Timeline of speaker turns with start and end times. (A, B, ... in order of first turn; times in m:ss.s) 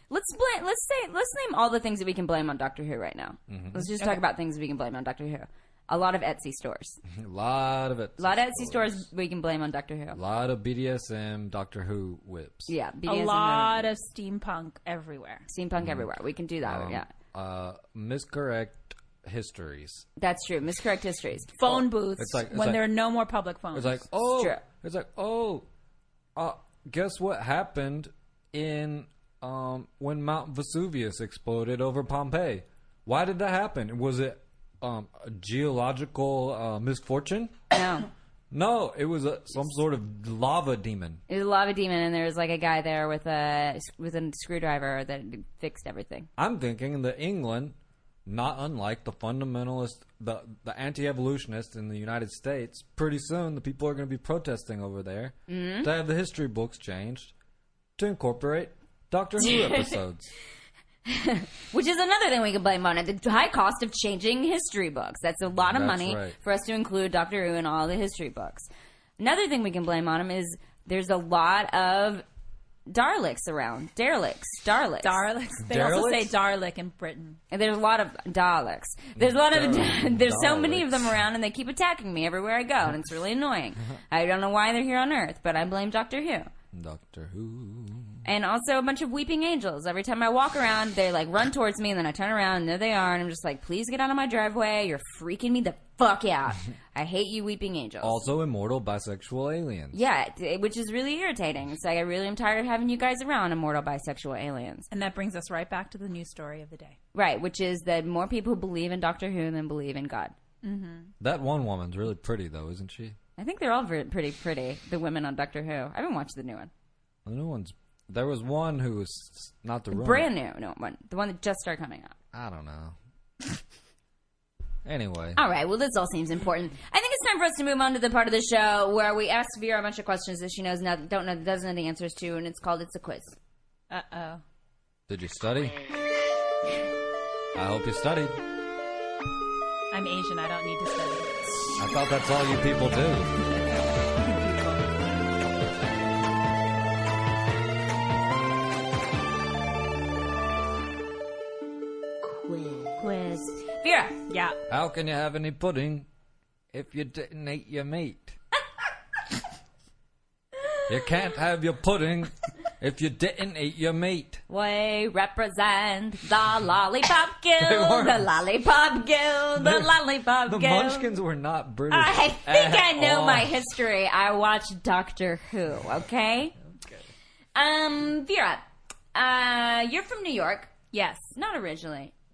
0:00.1-0:07.0 A
0:03.5-0:04.0 B
0:07.2-0:09.0 B
0:08.2-0:10.2 A
0:10.1-0:12.7 B
0:12.7-0:13.9 A
0:13.1-0:15.4 C
0:15.5-0:17.1 A
0:15.8-0:16.1 B
0:16.6-0:20.0 B
0:20.2-0:21.5 A
0:21.6-0:24.0 C
0:21.6-0:22.9 B
0:23.7-0:25.6 B
0:24.4-0:24.6 A
0:26.4-0:37.6 B
0:37.7-0:38.1 A
0:38.5-0:41.2 B
0:41.3-0:46.3 A
0:46.4-0:47.7 B
0:48.2-0:57.3 B
0:55.5-0:55.9 A
0:58.0-1:00.3 B
0:59.4-1:00.0 A
1:01.1-1:12.2 A
1:05.6-1:06.4 B
1:12.9-1:15.2 A
1:15.0-1:17.4 C
1:15.6-1:16.3 B
1:17.5-1:26.5 A
1:19.2-1:21.2 B
1:26.7-1:28.2 B
1:28.2-1:38.2 A
1:38.0-1:40.0 B
1:39.9-1:44.9 A
1:44.9-1:47.0 C
1:47.1-1:50.3 A
1:50.6-1:51.1 C
1:51.2-1:53.2 B
1:53.4-1:56.7 A
1:57.2-2:00.3 B
1:59.9-2:02.1 A
2:02.3-2:02.9 B
2:04.8-2:05.4 B
2:05.4-2:13.4 A
2:13.9-2:14.4 C
2:15.1-2:15.8 B
2:17.5-2:18.4 B
2:19.9-2:21.3 C
2:21.8-2:23.3 B
2:33.0-2:34.1 A
2:34.3-2:34.6 C
2:34.7-2:36.1 B
2:36.7-2:38.4 B
2:40.9-2:44.4 B
2:44.5-2:51.1 A
2:47.6-2:48.3 B
2:49.5-2:49.9 B
2:50.4-2:53.6 B
2:51.9-2:56.5 A
2:57.5-2:58.6 A
2:59.1-3:00.7 A
3:00.9-3:01.3 C
3:01.3-3:02.1 A